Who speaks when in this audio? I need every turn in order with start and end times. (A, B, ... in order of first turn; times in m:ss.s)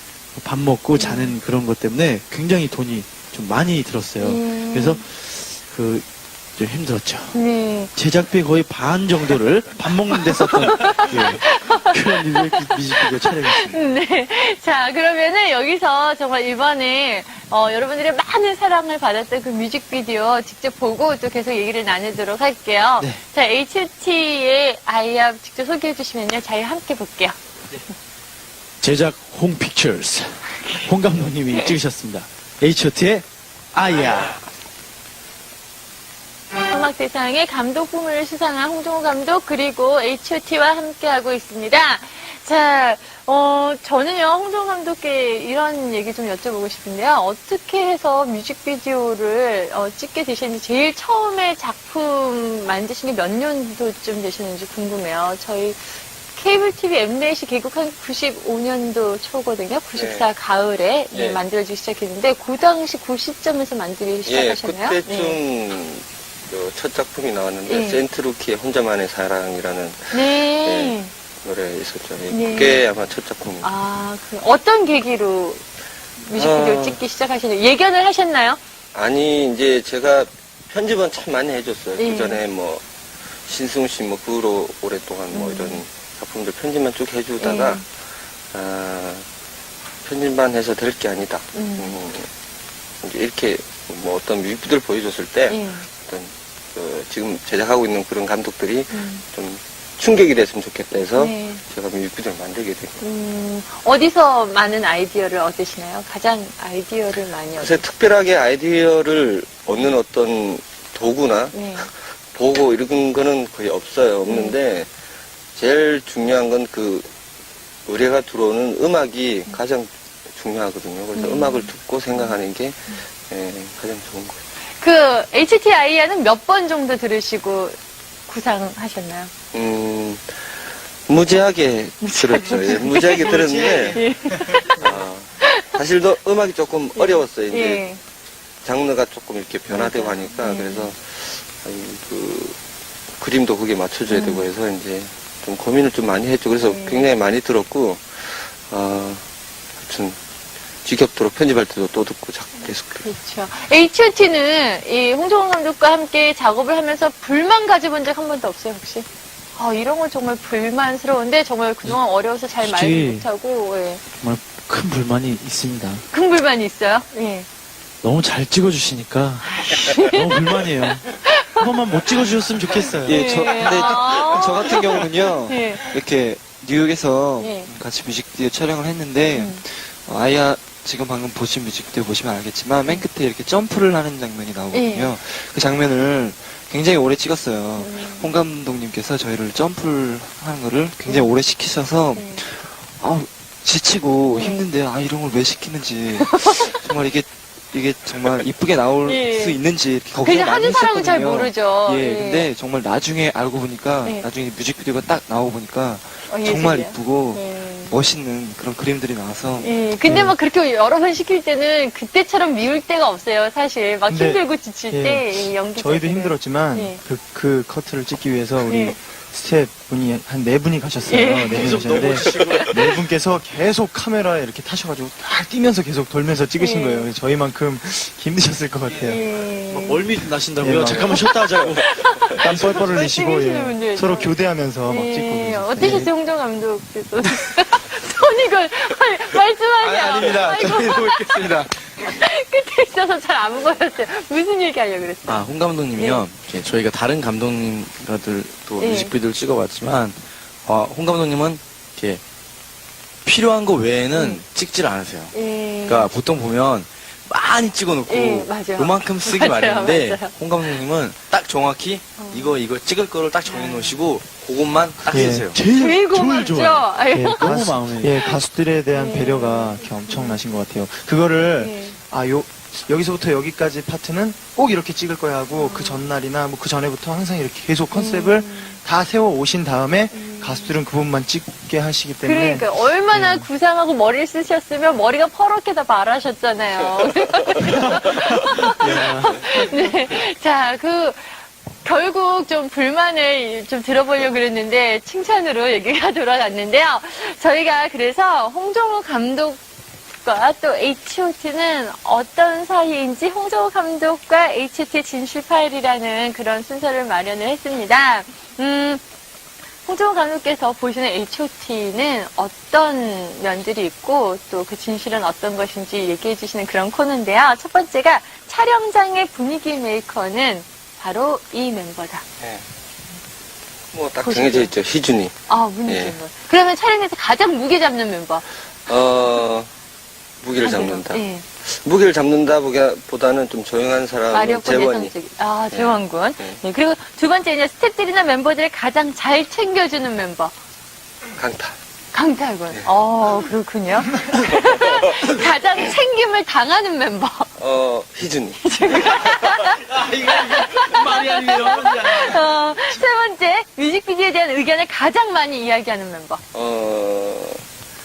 0:00.3-0:06.0 A
0:00.9-0:01.4 B
0:04.2-0:05.0 B
0:06.6-0:07.4 A
0:07.3-0:07.9 B
0:07.9-0:13.8 A
0:10.2-0:27.4 B
0:28.8-0:34.4 A
0:36.7-1:05.4 B
0:59.9-1:00.3 C
1:01.1-1:01.4 C
1:04.2-1:13.7 C
1:07.6-1:08.0 B
1:10.1-1:11.1 B
1:12.3-1:12.8 B
1:13.6-1:15.6 B
1:16.2-1:18.6 B
1:16.3-1:17.0 C
1:18.9-1:22.8 C
1:22.0-1:22.4 B
1:23.4-1:27.9 C
1:25.3-1:25.8 B
1:27.4-1:27.8 B
1:28.5-1:29.3 C
1:30.0-1:32.3 C
1:31.5-1:31.9 B
1:33.0-1:43.0 C
1:35.5-1:35.9 B
1:38.9-1:39.2 B
1:41.1-1:41.6 B
1:43.0-1:47.8 B
1:47.6-1:54.9 C
1:51.5-1:51.9 B
1:54.2-1:54.6 B
1:55.5-1:57.1 C
1:57.8-2:04.4 C
2:01.1-2:03.0 B
2:04.8-2:09.3 B
2:09.5-2:14.0 C
2:12.0-2:14.8 B
2:12.9-2:14.4 A
2:14.7-2:17.8 C
2:15.4-2:15.7 B
2:17.0-2:18.0 B
2:18.6-2:22.6 C
2:19.7-2:20.9 B
2:23.2-2:29.2 C
2:24.1-2:24.5 B
2:26.6-2:27.0 B
2:29.8-2:30.2 C
2:30.8-2:33.1 C
2:33.0-2:44.0 B
2:42.6-2:43.3 A
2:44.2-2:46.0 A
2:46.1-2:47.5 B
2:48.0-2:53.8 A
2:49.4-2:51.6 B
2:53.0-3:29.9 D
2:53.1-2:55.9 B
2:57.4-2:57.7 B
2:59.3-2:59.6 B
3:04.7-3:05.1 B
3:07.8-3:08.3 B
3:11.0-3:11.3 B
3:12.1-3:12.4 B
3:14.3-3:14.6 B
3:16.3-3:16.7 B
3:19.0-3:19.6 B
3:20.2-3:22.5 B
3:26.3-3:27.9 B
3:29.6-3:37.0 B
3:30.0-3:30.3 E
3:34.1-3:49.2 E
3:38.7-3:39.0 B
3:41.0-3:41.9 B
3:41.5-3:42.8 A
3:42.0-3:42.7 C
3:46.6-3:47.1 B
3:49.0-3:50.1 B
3:49.7-3:52.9 A
3:50.6-3:51.2 E
3:50.9-3:54.3 B
3:52.3-3:56.1 E
3:54.8-4:06.2 B
3:59.8-4:01.6 F
4:05.2-4:12.2 F
4:08.8-4:09.1 B
4:13.2-4:25.6 F
4:14.2-4:14.4 B
4:15.3-4:16.1 B
4:18.1-4:20.3 B
4:22.2-4:22.6 B
4:23.4-4:24.0 B
4:25.1-4:25.5 E
4:25.1-4:28.2 A
4:25.7-4:27.5 B
4:27.1-4:43.3 E
4:28.9-4:30.4 B
4:31.6-4:32.0 B
4:35.5-4:36.1 B
4:37.9-4:38.8 B
4:40.1-4:40.7 B
4:42.2-4:59.6 B
4:48.8-4:49.8 E
5:00.2-5:09.0 B
5:09.8-5:22.2 B
5:23.9-5:26.2 C
5:24.2-5:24.7 B
5:25.5-5:28.4 B
5:28.9-5:29.7 C
5:30.4-5:35.1 C
5:30.6-5:31.4 B
5:34.3-5:40.5 B
5:35.7-5:36.6 C
5:41.4-5:41.8 C
5:42.1-5:47.5 B
5:47.6-5:49.4 C
5:48.6-5:56.4 B
5:50.0-5:52.4 A
5:56.5-5:57.6 C